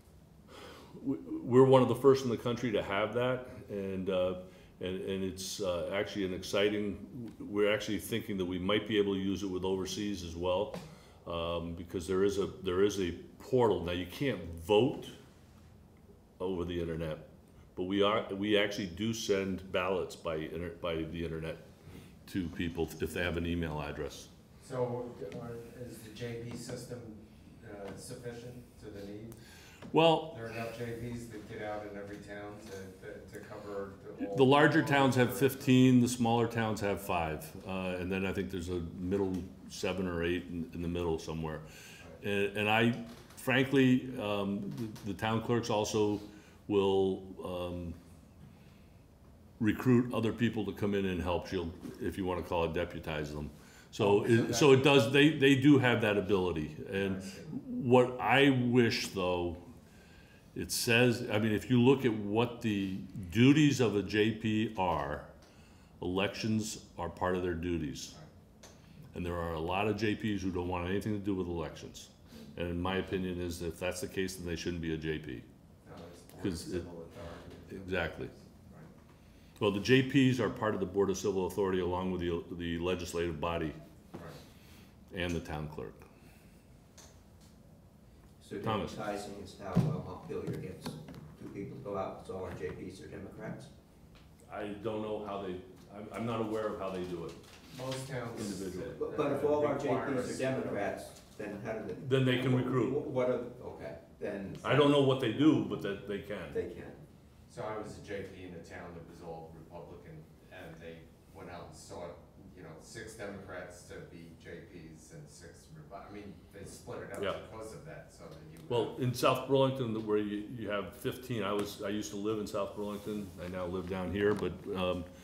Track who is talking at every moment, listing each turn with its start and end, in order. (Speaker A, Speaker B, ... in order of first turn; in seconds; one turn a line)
Speaker A: 0.9-15.2
Speaker A: 16.4-21.6
Speaker A: 22.2-24.3
Speaker B: 24.6-29.4
Speaker A: 29.9-30.3
Speaker B: 30.3-35.9
Speaker A: 34.2-41.7
Speaker A: 42.2-48.0
Speaker A: 49.6-59.6
Speaker B: 54.0-55.0
Speaker B: 56.9-57.5
Speaker A: 60.5-65.3
Speaker A: 66.0-68.1
Speaker A: 69.1-75.5
Speaker B: 75.8-78.9
Speaker A: 76.4-76.8
Speaker A: 77.7-78.3
Speaker A: 79.6-83.8
Speaker A: 85.1-86.0
Speaker C: 88.4-93.7
Speaker A: 88.6-89.0
Speaker A: 94.5-97.4
Speaker B: 97.7-101.0
Speaker A: 98.3-99.0
Speaker C: 98.9-104.7
Speaker A: 102.0-103.0
Speaker B: 103.7-105.0
Speaker A: 104.6-106.6
Speaker C: 106.5-107.0
Speaker B: 107.5-119.0
Speaker A: 118.7-125.1